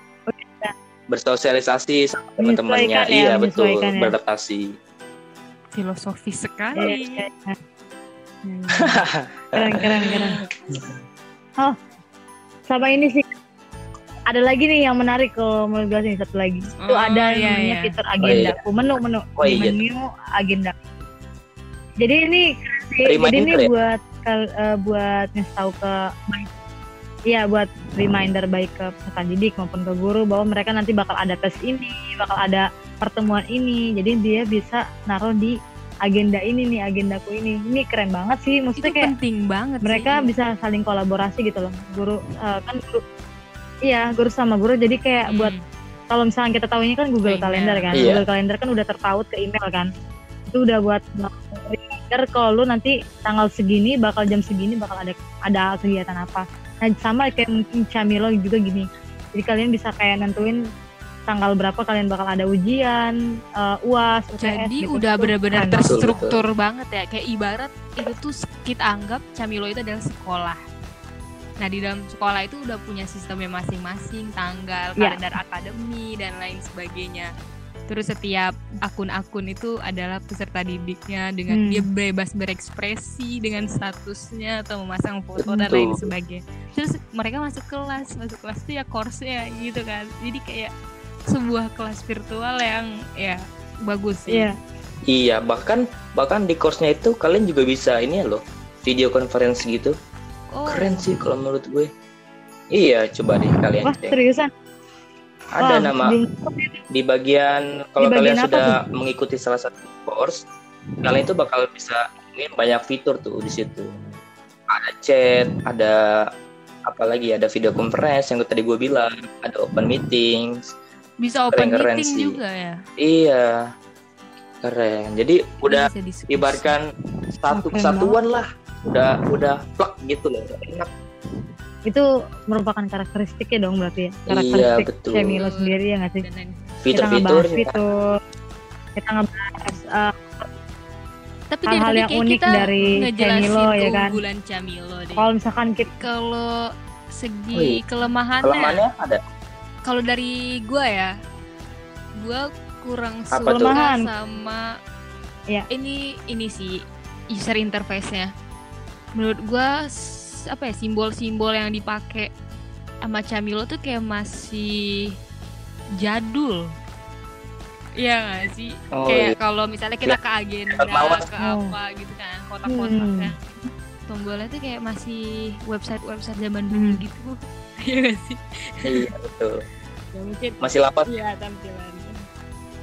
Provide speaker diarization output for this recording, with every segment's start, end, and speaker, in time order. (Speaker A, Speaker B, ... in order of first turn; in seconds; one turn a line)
Speaker A: 0.3-0.7
Speaker B: 1.1-4.7
Speaker A: 2.4-4.1
Speaker C: 5.7-7.2
Speaker A: 6.8-7.6
Speaker A: 8.4-9.0
Speaker B: 8.8-10.8
Speaker A: 9.6-10.4
Speaker A: 12.7-13.3
Speaker A: 14.3-20.7
Speaker C: 16.8-17.9
Speaker B: 18.2-18.6
Speaker B: 19.4-19.8
Speaker A: 22.0-26.5
Speaker B: 23.1-23.7
Speaker A: 27.3-39.1
Speaker C: 38.8-40.3
Speaker A: 39.8-43.0
Speaker A: 43.9-45.5
Speaker C: 45.3-45.6
Speaker A: 46.1-49.9
Speaker C: 47.2-48.1
Speaker B: 47.9-48.2
Speaker A: 50.5-60.6
Speaker A: 61.3-65.9
Speaker C: 64.4-70.6
Speaker B: 65.9-66.4
Speaker C: 71.6-77.3
Speaker C: 77.9-90.7
Speaker A: 81.5-81.8
Speaker B: 85.4-86.0
Speaker C: 91.3-94.5
Speaker A: 94.3-94.5
Speaker B: 95.1-99.9
Speaker C: 100.5-101.0
Speaker B: 100.7-101.9
Speaker B: 102.7-104.1
Speaker A: 103.8-104.5
Speaker B: 105.5-106.2
Speaker A: 105.6-106.8
Speaker B: 106.9-110.4
Speaker A: 108.0-108.7
Speaker B: 111.0-113.9
Speaker B: 114.7-116.0
Speaker B: 116.9-120.7
Speaker C: 121.2-122.8
Speaker B: 121.5-122.3
Speaker B: 123.0-123.6
Speaker B: 124.6-126.8
Speaker C: 125.6-126.8
Speaker B: 127.4-130.9
Speaker A: 127.5-128.2
Speaker A: 131.9-136.2
Speaker B: 134.3-135.4
Speaker C: 135.3-136.8
Speaker B: 136.8-137.8
Speaker A: 136.9-137.9
Speaker A: 139.0-140.5
Speaker C: 141.5-145.3
Speaker A: 141.7-144.2
Speaker A: 145.2-145.9
Speaker C: 146.0-146.5
Speaker C: 147.2-148.8
Speaker B: 147.5-147.8
Speaker B: 148.4-149.2
Speaker C: 149.8-151.1
Speaker C: 152.2-154.6
Speaker B: 153.3-153.7
Speaker A: 153.5-154.1
Speaker C: 155.7-156.8
Speaker C: 157.3-158.3
Speaker C: 159.2-162.3
Speaker C: 163.0-165.1
Speaker C: 166.0-166.6
Speaker C: 168.0-173.3
Speaker B: 168.9-169.3
Speaker B: 170.7-171.2
Speaker A: 171.4-171.7
Speaker A: 172.7-173.3
Speaker C: 174.1-179.1
Speaker A: 176.7-177.0
Speaker B: 178.8-179.6
Speaker C: 180.1-182.2
Speaker B: 180.6-181.1